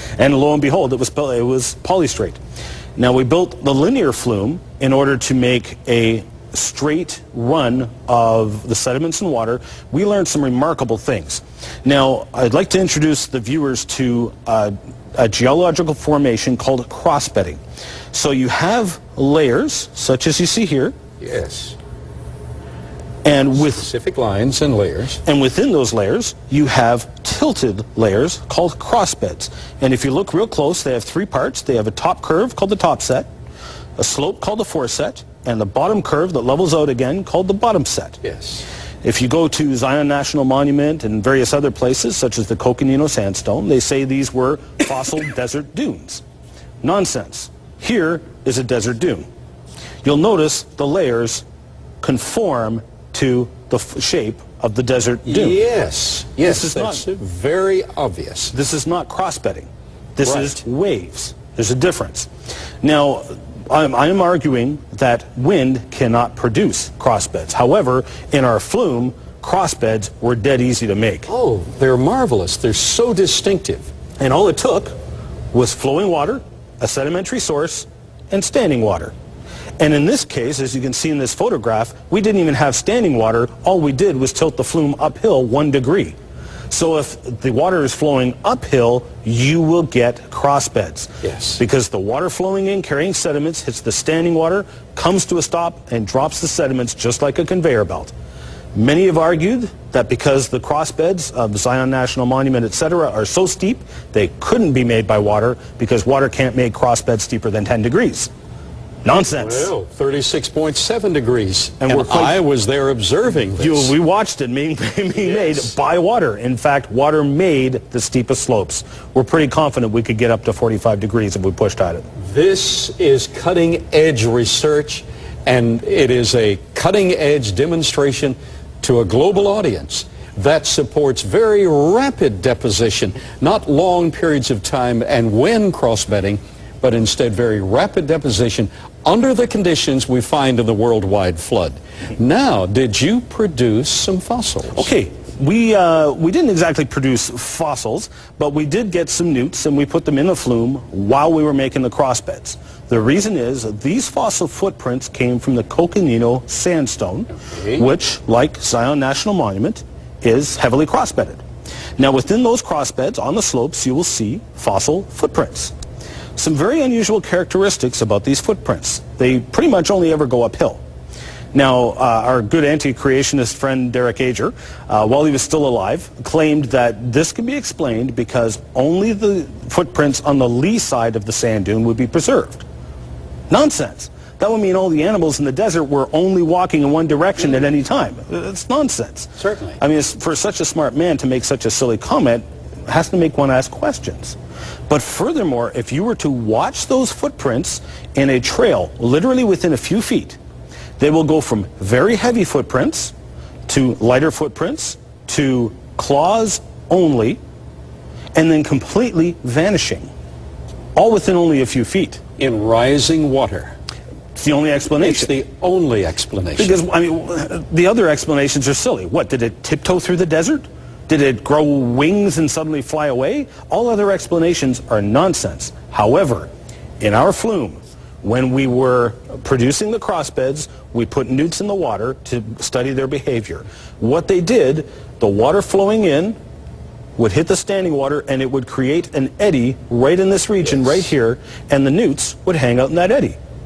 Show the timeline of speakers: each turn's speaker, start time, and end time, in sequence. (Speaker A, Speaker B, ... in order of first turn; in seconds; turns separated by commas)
Speaker A: 0.2-2.4, Speaker A: 3.0-17.6, Speaker A: 18.1-21.0, Speaker B: 21.2-21.8, Speaker A: 23.2-23.9, Speaker B: 23.6-25.2, Speaker A: 25.2-33.3, Speaker A: 34.0-38.2, Speaker B: 38.2-38.6, Speaker A: 39.0-46.2, Speaker A: 46.8-49.3, Speaker A: 50.0-51.4, Speaker A: 52.0-55.6, Speaker B: 55.2-58.5, Speaker A: 56.4-57.0, Speaker A: 58.5-62.3, Speaker B: 60.2-60.6, Speaker A: 62.8-71.3, Speaker B: 71.3-73.9, Speaker A: 74.2-75.0, Speaker A: 75.5-79.1, Speaker A: 79.8-86.2, Speaker A: 86.7-98.1, Speaker B: 91.2-91.6, Speaker A: 98.7-108.3, Speaker A: 109.0-109.7, Speaker B: 109.2-113.9, Speaker A: 111.8-112.4, Speaker A: 113.5-122.0, Speaker B: 122.2-144.9, Speaker A: 144.7-161.4, Speaker A: 162.0-165.7, Speaker A: 166.4-170.8, Speaker A: 171.5-182.6, Speaker A: 183.5-194.4, Speaker B: 189.4-189.8, Speaker A: 194.9-200.4, Speaker A: 201.0-203.1, Speaker A: 203.7-207.4, Speaker A: 208.3-210.1, Speaker A: 210.9-212.2, Speaker B: 212.4-213.7, Speaker A: 214.3-215.3, Speaker B: 215.0-216.8, Speaker A: 216.6-226.5, Speaker A: 227.0-236.3, Speaker A: 237.2-243.4